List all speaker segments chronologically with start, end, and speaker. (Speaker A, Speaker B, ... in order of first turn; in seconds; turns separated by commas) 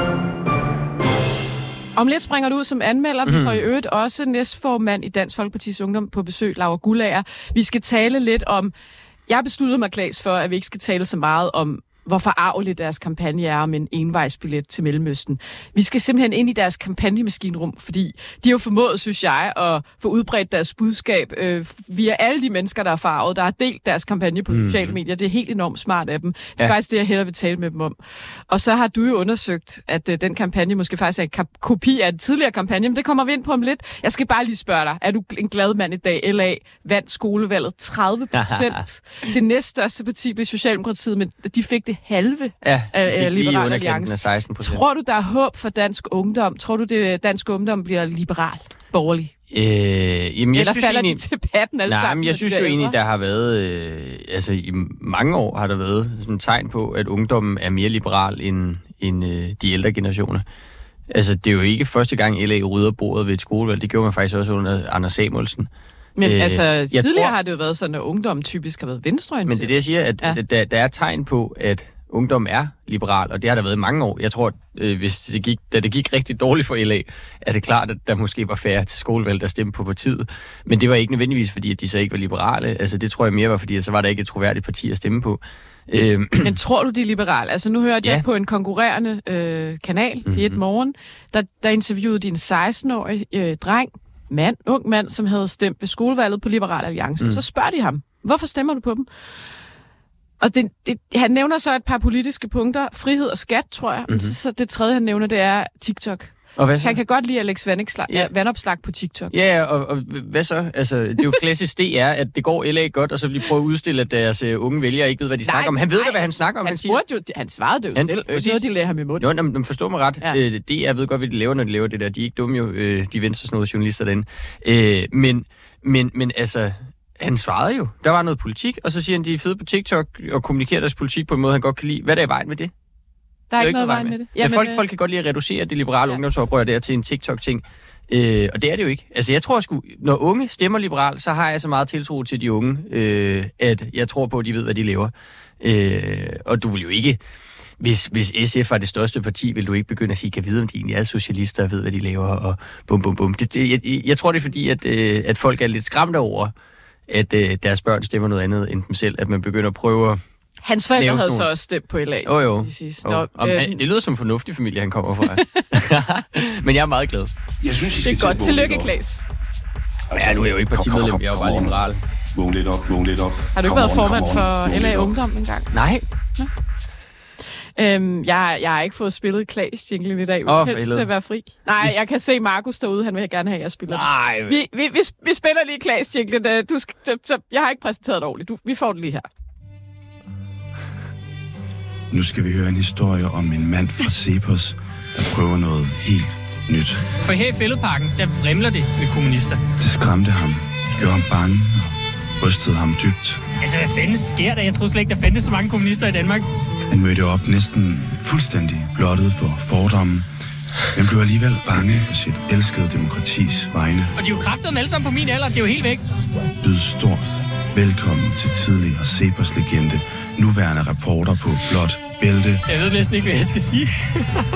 Speaker A: 1.9-8.7, Speaker B: 3.2-3.6, Speaker A: 9.3-27.9, Speaker B: 24.5-25.0, Speaker A: 28.5-49.3, Speaker B: 38.3-38.8, Speaker B: 42.6-44.8, Speaker B: 49.5-51.2, Speaker A: 50.5-53.0, Speaker B: 51.9-60.4, Speaker B: 61.1-65.7, Speaker A: 66.2-70.4, Speaker B: 66.2-67.3, Speaker B: 69.5-86.5, Speaker A: 86.4-99.1, Speaker B: 90.3-90.6, Speaker A: 100.4-109.3, Speaker B: 104.1-104.3, Speaker B: 106.5-107.0, Speaker B: 109.3-117.0, Speaker A: 115.4-119.2, Speaker B: 117.9-118.7, Speaker B: 119.2-132.7, Speaker A: 133.5-134.8, Speaker B: 133.6-147.2, Speaker B: 147.8-156.5, Speaker B: 157.1-160.2, Speaker A: 160.6-163.8, Speaker B: 160.9-161.5, Speaker B: 162.2-167.3, Speaker A: 165.3-165.7, Speaker C: 167.6-168.9, Speaker A: 168.0-169.3, Speaker C: 170.1-171.8, Speaker B: 170.1-172.0, Speaker C: 172.3-175.2, Speaker A: 173.5-175.7, Speaker B: 175.7-176.0, Speaker A: 177.8-189.3, Speaker B: 180.5-181.1, Speaker B: 183.9-184.6, Speaker D: 192.1-197.0, Speaker E: 197.2-199.6, Speaker D: 199.8-203.4, Speaker E: 203.6-206.4, Speaker D: 206.9-210.2, Speaker D: 210.9-214.1, Speaker E: 214.2-216.0, Speaker D: 216.6-222.6, Speaker E: 222.7-223.8